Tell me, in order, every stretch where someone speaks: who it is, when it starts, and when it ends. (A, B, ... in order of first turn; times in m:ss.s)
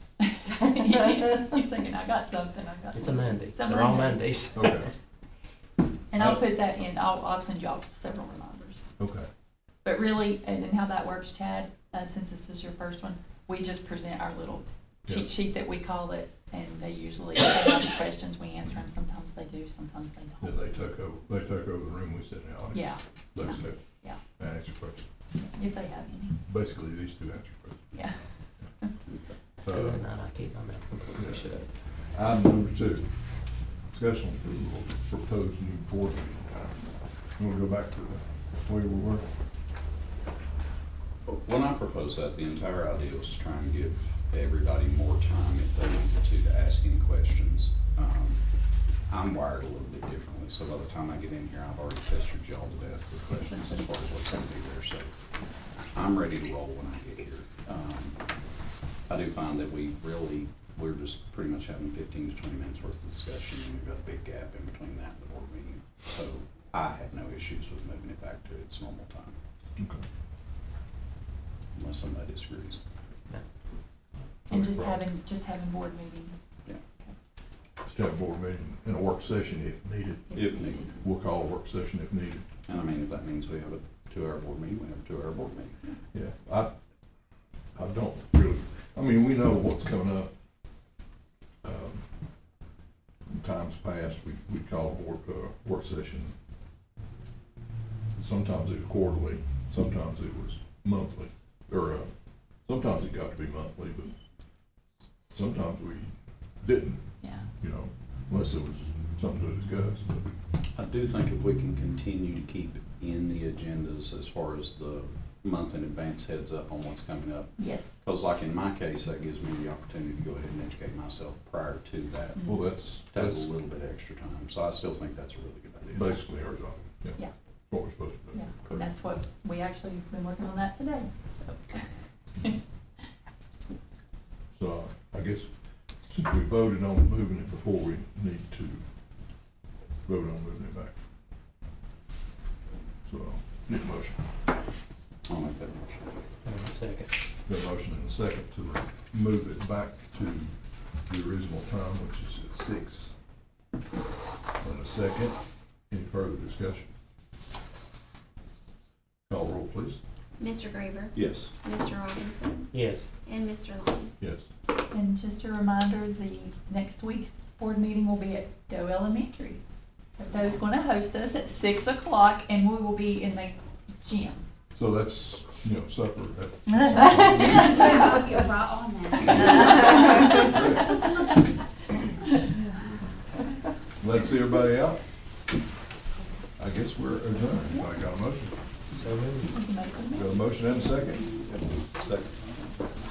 0:00.2-0:04.2 A
0:02.9-0:04.9 B
0:04.5-0:04.9 C
0:06.1-0:08.8 A
0:09.0-0:09.3 C
0:09.8-0:20.6 A
0:20.4-0:22.8 C
0:22.7-0:24.2 A
0:23.3-0:25.1 C
0:25.4-0:26.4 A
0:26.4-0:27.9 C
0:27.9-0:28.3 A
0:29.6-0:30.0 C
0:29.7-0:31.7 B
0:31.2-0:39.3 C
0:41.3-1:09.4 D
1:09.8-1:10.0 C
1:11.8-1:12.8 D
1:14.5-1:16.4 A
1:14.5-1:15.0 D
1:17.8-1:20.3 C
1:20.3-1:21.0 D
1:21.0-1:22.5 C
1:22.7-1:25.8 D
1:26.1-1:26.8 C
1:27.8-1:30.3 C
1:31.6-1:32.1 C
1:33.3-1:36.3 C
1:38.2-1:42.1 C
1:42.7-1:44.1 C
1:45.3-1:50.3 C
1:47.2-1:47.5 A
1:50.7-2:02.5 D
1:57.6-1:57.9 A
2:02.4-2:02.6 A
2:02.4-2:03.5 C
2:03.1-2:06.2 D
2:05.9-2:08.5 C
2:08.3-2:11.9 A
2:14.5-2:15.5 C
2:16.0-2:18.9 C
2:20.1-2:21.0 C
2:23.0-2:24.4 C
2:25.3-2:26.2 D
2:26.4-2:27.1 B
2:27.5-2:33.1 C
2:34.6-2:36.9 C
2:39.3-2:40.0 C
2:40.4-2:42.7 E
2:41.2-2:41.5 D
2:42.7-2:43.1 B
2:43.2-2:44.1 E
2:44.2-2:44.5 C
2:44.9-2:49.6 A
2:50.2-2:54.4 A
2:54.7-2:58.2 C
2:57.4-3:00.4 A
3:00.3-3:01.0 C
3:04.0-3:05.0 C
3:06.6-3:08.6 C
3:08.9-3:09.5 B
3:09.5-3:10.4 A
3:10.1-3:11.3 C
3:12.0-3:12.4 D